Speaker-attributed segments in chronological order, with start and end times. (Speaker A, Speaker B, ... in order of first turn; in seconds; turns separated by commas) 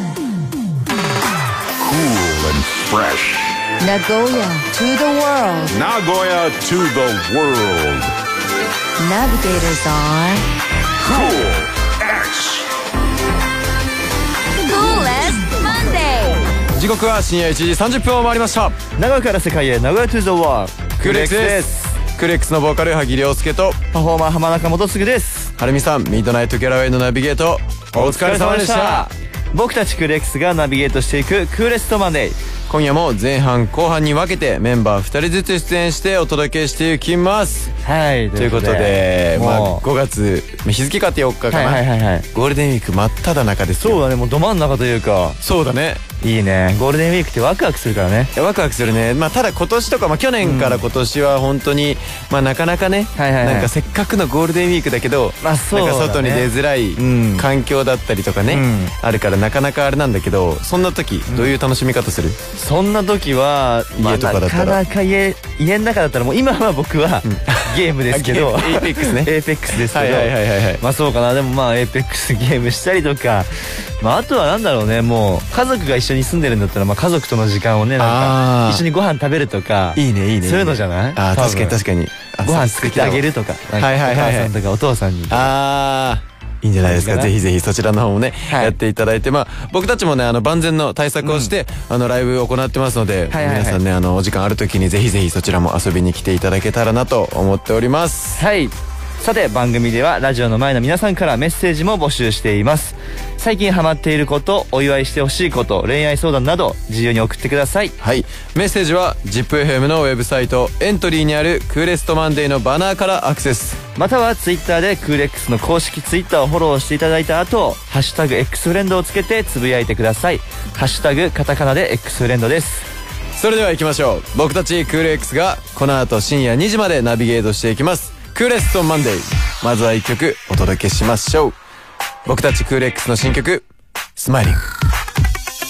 Speaker A: 1.8-3.6, Speaker B: 3.8-5.8, Speaker A: 5.7-8.1, Speaker B: 9.0-10.4, Speaker A: 11.0-12.7, Speaker B: 14.6-16.5, Speaker C: 16.7-18.8, Speaker D: 19.0-22.0, Speaker C: 21.0-23.8, Speaker D: 23.9-25.5, Speaker C: 25.6-29.1, Speaker D: 27.9-32.4, Speaker C: 32.7-37.7, Speaker D: 37.8-39.8, Speaker C: 38.4-44.0, Speaker D: 41.5-42.2, Speaker D: 43.8-45.4, Speaker C: 45.4-46.0, Speaker D: 46.2-48.3, Speaker C: 48.3-62.4, Speaker D: 50.4-50.9, Speaker D: 53.2-53.7, Speaker D: 55.4-57.5, Speaker D: 58.5-58.9, Speaker D: 61.3-61.5, Speaker D: 62.5-81.8, Speaker C: 64.0-64.8, Speaker C: 67.2-70.8, Speaker C: 78.0-78.8, Speaker C: 79.9-84.5, Speaker D: 82.4-85.5, Speaker C: 85.3-98.4, Speaker D: 86.8-87.3, Speaker D: 88.5-88.8, Speaker D: 91.2-91.5, Speaker D: 93.3-93.8, Speaker D: 98.4-107.9, Speaker C: 108.0-113.8, Speaker D: 114.0-122.9, Speaker C: 123.4-131.6, Speaker C: 132.2-134.7